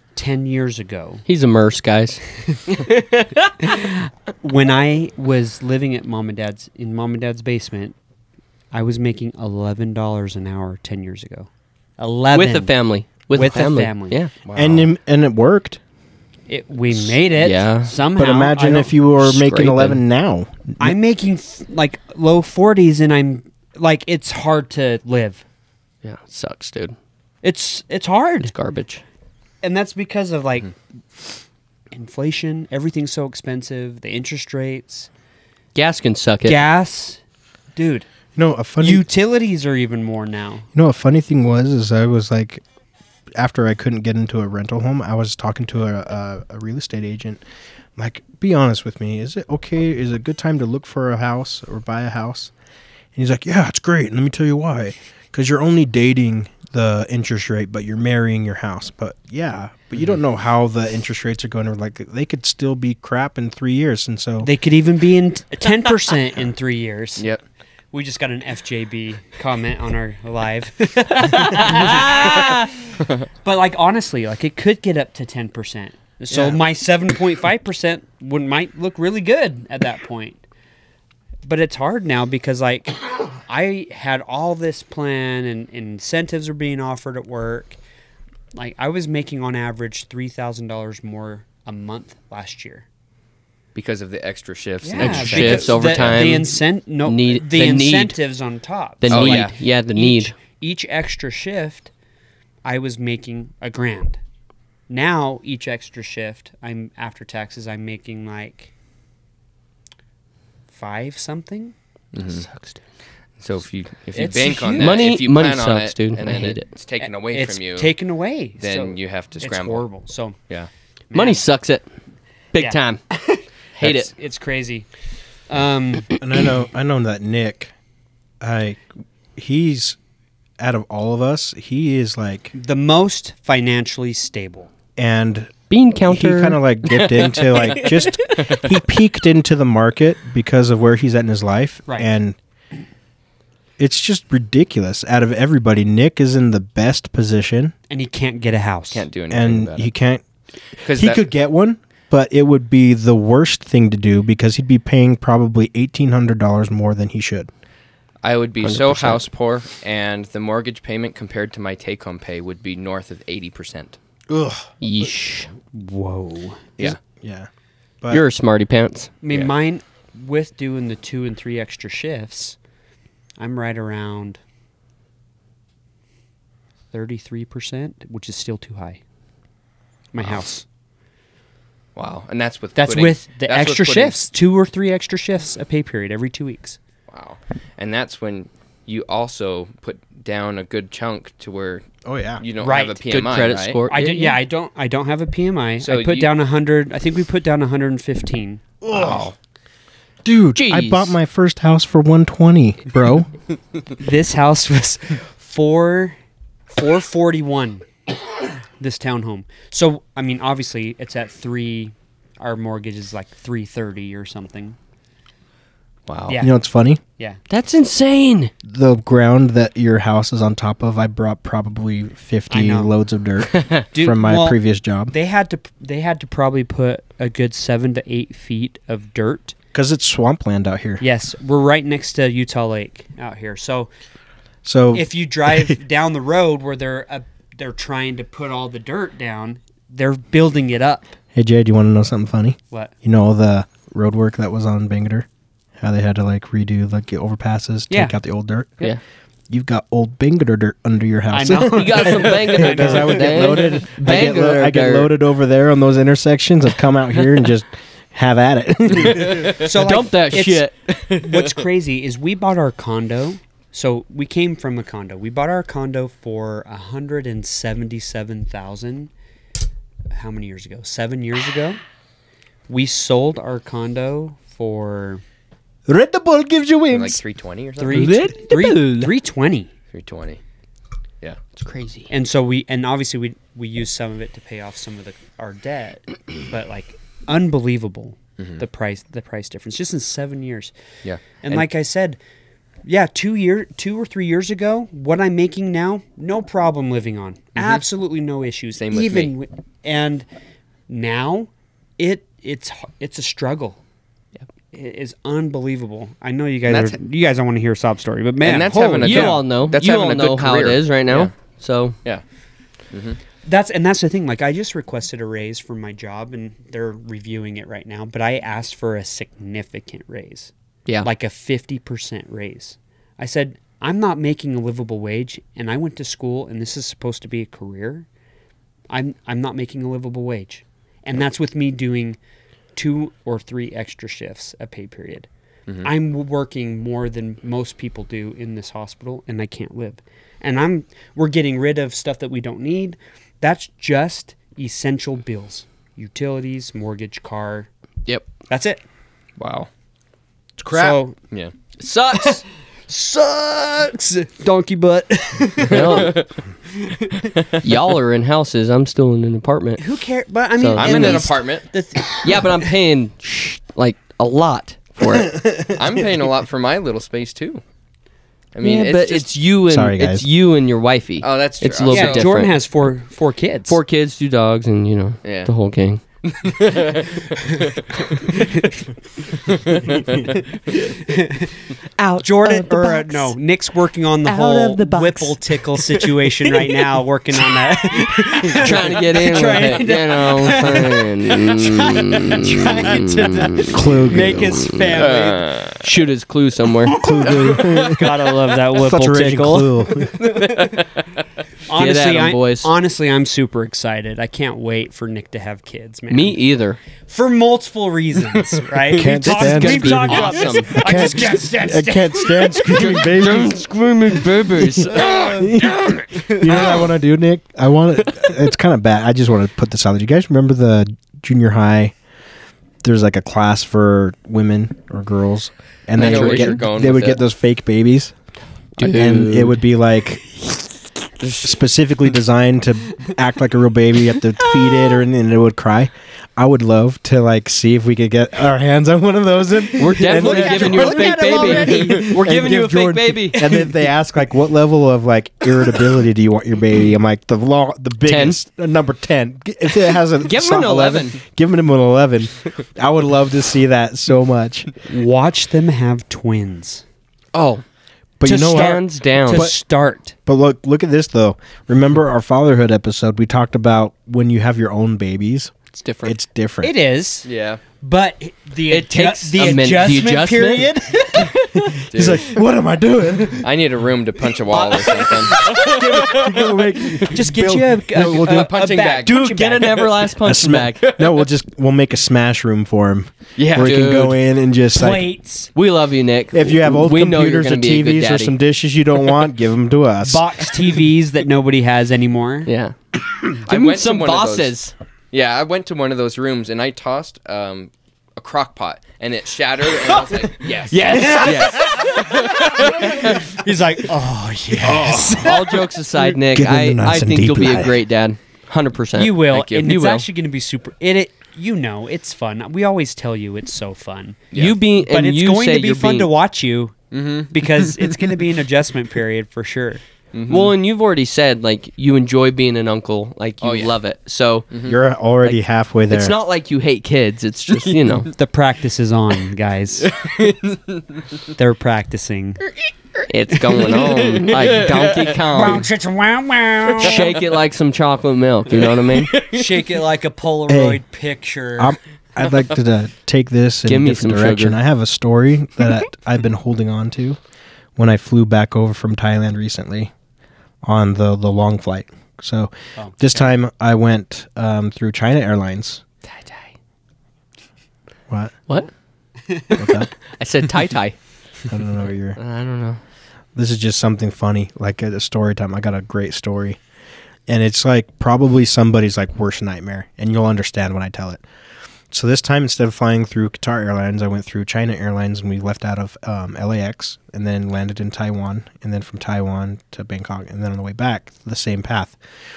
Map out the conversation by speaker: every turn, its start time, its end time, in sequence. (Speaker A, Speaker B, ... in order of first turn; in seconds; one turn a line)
Speaker A: 0.1-1.2
Speaker B: 1.2-3.5
Speaker A: 3.6-8.0
Speaker A: 8.7-14.2
Speaker B: 12.3-14.3
Speaker C: 14.4-14.9
Speaker D: 14.5-15.8
Speaker A: 16.5-19.0
Speaker B: 17.3-17.9
Speaker D: 18.1-20.9
Speaker B: 19.2-20.0
Speaker A: 20.8-25.4
Speaker B: 26.0-26.9
Speaker A: 27.4-28.5
Speaker B: 28.4-29.0
Speaker A: 29.6-30.7
Speaker A: 31.9-35.1
Speaker B: 35.7-36.6
Speaker A: 36.4-37.2
Speaker A: 37.7-38.1
Speaker D: 38.4-39.1
Speaker A: 38.8-40.7
Speaker D: 40.7-42.6
Speaker D: 43.4-47.4
Speaker D: 48.0-52.5
Speaker D: 53.1-64.5
Speaker A: 64.4-67.2
Speaker A: 67.9-72.7
Speaker B: 71.4-72.7
Speaker A: 73.4-80.4
Speaker A: 81.4-87.8
Speaker A: 88.5-92.8
Speaker C: 93.7-96.4
Speaker A: 94.8-101.9
Speaker B: 95.0-98.2
Speaker B: 99.0-100.3
Speaker C: 99.1-99.5
Speaker A: 102.6-104.2
Speaker A: 104.9-108.7
Speaker A: 110.7-111.7
Speaker C: 112.1-112.5
Speaker B: 112.5-112.8
Speaker C: 113.4-117.9
Speaker A: 114.1-115.1
Speaker B: 114.8-116.6
Speaker A: 117.0-120.3
Speaker C: 118.6-119.8
Speaker A: 121.1-121.4
Speaker B: 121.1-121.8
Speaker B: 122.5-123.0
Speaker A: 122.5-124.9
Speaker B: 123.8-124.1
Speaker A: 125.5-126.1
Speaker D: 126.2-127.7
Speaker D: 128.4-128.8
Speaker D: 129.3-130.0
Speaker D: 130.6-132.5
Speaker A: 132.5-134.7
Speaker D: 134.9-135.5
Speaker B: 135.7-138.5
Speaker D: 136.1-142.4
Speaker A: 141.9-142.1
Speaker D: 143.8-147.7
Speaker A: 147.9-149.1
Speaker C: 148.9-149.9
Speaker D: 149.3-150.2
Speaker C: 150.8-151.2
Speaker D: 150.8-157.5
Speaker C: 158.2-164.0
Speaker B: 158.6-159.2
Speaker D: 164.3-164.7
Speaker B: 164.8-165.5
Speaker A: 165.7-166.7
Speaker D: 166.8-167.5
Speaker B: 168.1-169.1
Speaker A: 169.2-172.6
Speaker A: 173.4-174.4
Speaker A: 176.9-179.0
Speaker A: 180.1-180.6
Speaker C: 181.9-184.2
Speaker A: 182.8-186.8
Speaker C: 187.1-191.9
Speaker D: 192.0-192.4
Speaker C: 192.4-193.8
Speaker A: 192.6-193.0
Speaker B: 193.1-194.4
Speaker A: 193.9-198.6
Speaker C: 195.8-196.3
Speaker D: 198.8-199.3
Speaker C: 198.9-199.3
Speaker D: 200.2-203.3
Speaker B: 200.6-201.1
Speaker A: 204.0-206.2
Speaker A: 206.7-207.9
Speaker A: 208.8-214.8
Speaker C: 216.1-216.4
Speaker A: 216.3-216.5
Speaker D: 216.4-217.0
Speaker B: 217.5-218.5
Speaker D: 218.6-225.1
Speaker A: 222.5-222.9
Speaker A: 223.9-229.5
Speaker D: 229.7-231.0
Speaker A: 231.0-233.9
Speaker D: 234.6-235.8
Speaker A: 234.9-241.1
Speaker D: 241.3-245.3
Speaker D: 245.8-248.9
Speaker A: 247.9-248.2
Speaker D: 249.5-259.6
Speaker A: 251.3-253.7
Speaker B: 251.7-255.1
Speaker A: 259.5-269.1
Speaker B: 259.5-261.3
Speaker A: 270.1-271.8
Speaker A: 272.7-275.2
Speaker D: 275.9-277.2
Speaker C: 276.9-278.1
Speaker A: 277.8-279.7
Speaker B: 277.9-279.1
Speaker D: 277.9-279.1
Speaker C: 279.9-280.4
Speaker B: 281.5-282.1
Speaker A: 282.1-290.7
Speaker C: 291.0-291.6
Speaker A: 291.4-292.2
Speaker A: 292.8-300.2
Speaker C: 298.8-299.3
Speaker A: 300.9-303.8
Speaker A: 304.7-309.4
Speaker C: 306.7-307.0
Speaker C: 308.4-311.3
Speaker B: 309.0-311.9
Speaker C: 312.9-313.2
Speaker A: 313.4-320.5
Speaker A: 321.0-328.1
Speaker A: 328.9-332.2
Speaker A: 332.7-335.3
Speaker A: 335.8-347.7
Speaker A: 348.5-348.8
Speaker C: 349.4-349.7
Speaker D: 350.6-351.0
Speaker A: 350.7-351.1
Speaker B: 351.8-352.4
Speaker A: 352.1-356.1
Speaker B: 355.6-356.2
Speaker C: 355.7-356.3
Speaker A: 356.8-357.3
Speaker B: 357.6-359.8
Speaker A: 359.8-362.6
Speaker B: 360.6-361.3
Speaker C: 360.8-361.7
Speaker B: 362.2-365.4
Speaker D: 365.0-365.7
Speaker C: 365.7-367.6
Speaker C: 368.5-369.3
Speaker B: 368.6-372.5
Speaker D: 369.7-370.3
Speaker C: 371.2-372.3
Speaker A: 371.9-373.8
Speaker B: 373.7-376.0
Speaker C: 375.2-375.5
Speaker C: 376.2-378.4
Speaker A: 378.2-378.8
Speaker C: 379.4-380.2
Speaker A: 380.0-395.5
Speaker B: 382.0-383.2
Speaker B: 384.2-385.4
Speaker B: 388.5-395.1
Speaker D: 393.7-394.6
Speaker C: 395.0-395.8
Speaker B: 395.8-397.0
Speaker D: 396.9-398.1
Speaker A: 396.9-400.1
Speaker D: 398.7-400.2
Speaker C: 400.2-400.9
Speaker A: 401.7-406.4
Speaker B: 401.7-402.7
Speaker B: 406.1-406.8
Speaker A: 407.0-413.0
Speaker D: 408.9-413.7
Speaker B: 409.0-411.3
Speaker B: 412.9-415.3
Speaker D: 414.6-421.9
Speaker A: 414.9-416.2
Speaker D: 422.8-428.1
Speaker B: 426.0-426.6
Speaker C: 426.0-427.2
Speaker B: 428.8-429.6
Speaker D: 428.8-430.6
Speaker D: 431.4-454.7
Speaker A: 439.7-442.7
Speaker B: 439.8-443.5
Speaker B: 448.0-448.4
Speaker B: 450.2-451.2
Speaker A: 454.8-456.8
Speaker B: 457.3-457.6
Speaker D: 458.2-459.6
Speaker A: 458.2-460.1
Speaker B: 458.4-459.5
Speaker D: 460.2-466.7
Speaker B: 465.7-466.2
Speaker A: 466.6-467.3
Speaker C: 467.2-467.6
Speaker A: 467.8-471.6
Speaker B: 468.7-470.7
Speaker D: 471.1-473.5
Speaker C: 471.9-472.3
Speaker C: 473.3-476.4
Speaker A: 474.7-475.7
Speaker D: 475.0-478.5
Speaker A: 477.0-479.9
Speaker C: 477.9-479.7
Speaker B: 479.0-480.9
Speaker D: 480.2-485.1
Speaker C: 480.8-481.1
Speaker C: 483.4-483.8
Speaker B: 483.5-484.2
Speaker A: 484.7-485.5
Speaker B: 485.5-488.3
Speaker D: 486.3-490.4
Speaker A: 490.0-492.5
Speaker B: 492.4-492.8
Speaker C: 493.4-494.5
Speaker B: 493.4-494.7
Speaker C: 495.1-503.2
Speaker A: 500.4-505.7
Speaker B: 500.7-501.7
Speaker D: 504.6-505.4
Speaker B: 505.2-510.1
Speaker D: 505.9-507.8
Speaker A: 508.9-514.2
Speaker C: 509.3-509.6
Speaker C: 514.3-514.5
Speaker B: 514.3-516.1
Speaker A: 514.8-516.7
Speaker C: 516.9-518.0
Speaker A: 517.3-519.8
Speaker C: 520.1-520.5
Speaker B: 520.3-524.5
Speaker C: 523.4-523.7
Speaker C: 524.5-524.8
Speaker D: 524.6-526.1
Speaker B: 525.2-528.1
Speaker C: 527.5-528.1
Speaker A: 528.1-529.9
Speaker C: 529.9-531.0
Speaker A: 531.3-532.4
Speaker B: 533.1-535.6
Speaker C: 533.5-535.2
Speaker A: 535.3-537.1
Speaker B: 536.8-539.1
Speaker C: 536.8-537.2
Speaker C: 538.5-539.6
Speaker A: 539.3-541.8
Speaker D: 540.5-540.8
Speaker D: 541.6-547.2
Speaker B: 543.6-544.6
Speaker D: 547.8-549.9
Speaker D: 550.6-555.8
Speaker A: 552.8-553.2
Speaker B: 556.0-556.5
Speaker D: 558.1-558.4
Speaker A: 559.3-559.6
Speaker B: 559.5-561.0
Speaker D: 559.5-559.9
Speaker D: 561.5-562.2
Speaker B: 562.2-562.8
Speaker D: 563.3-566.6
Speaker D: 567.3-571.2
Speaker D: 571.9-582.0